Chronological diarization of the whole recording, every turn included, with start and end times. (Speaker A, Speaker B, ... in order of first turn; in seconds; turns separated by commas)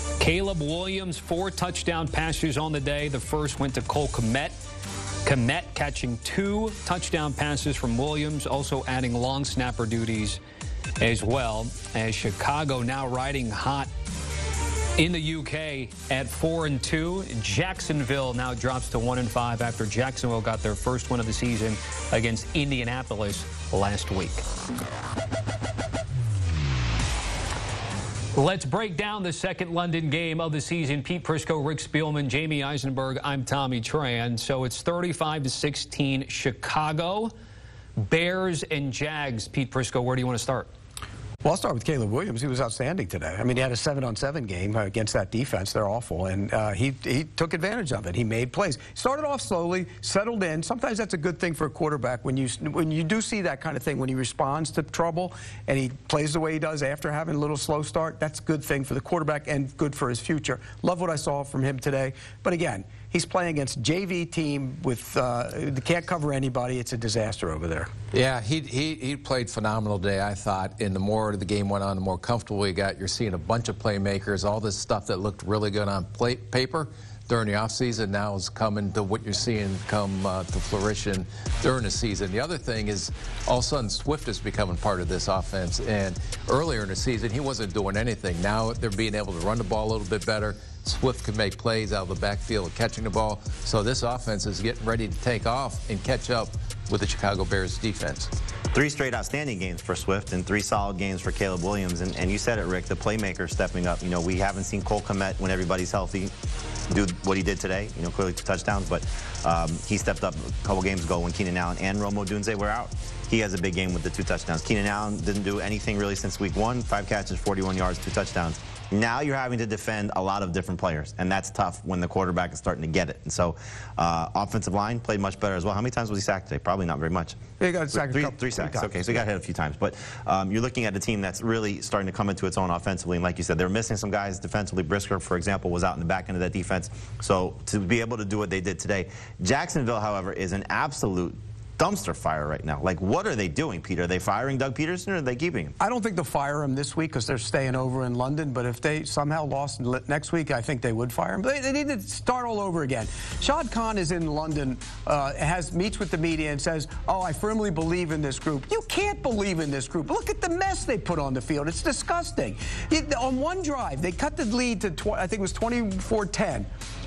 Speaker A: 0.2-4.5, Speaker A: 5.2-10.4, Speaker A: 11.0-13.9, Speaker A: 15.0-24.4, Speaker A: 28.3-37.3, Speaker A: 38.0-40.7, Speaker B: 41.4-67.9, Speaker C: 68.1-98.3, Speaker D: 98.7-106.3, Speaker D: 106.9-127.4, Speaker B: 127.6-129.1, Speaker D: 127.9-145.8, Speaker B: 145.8-166.7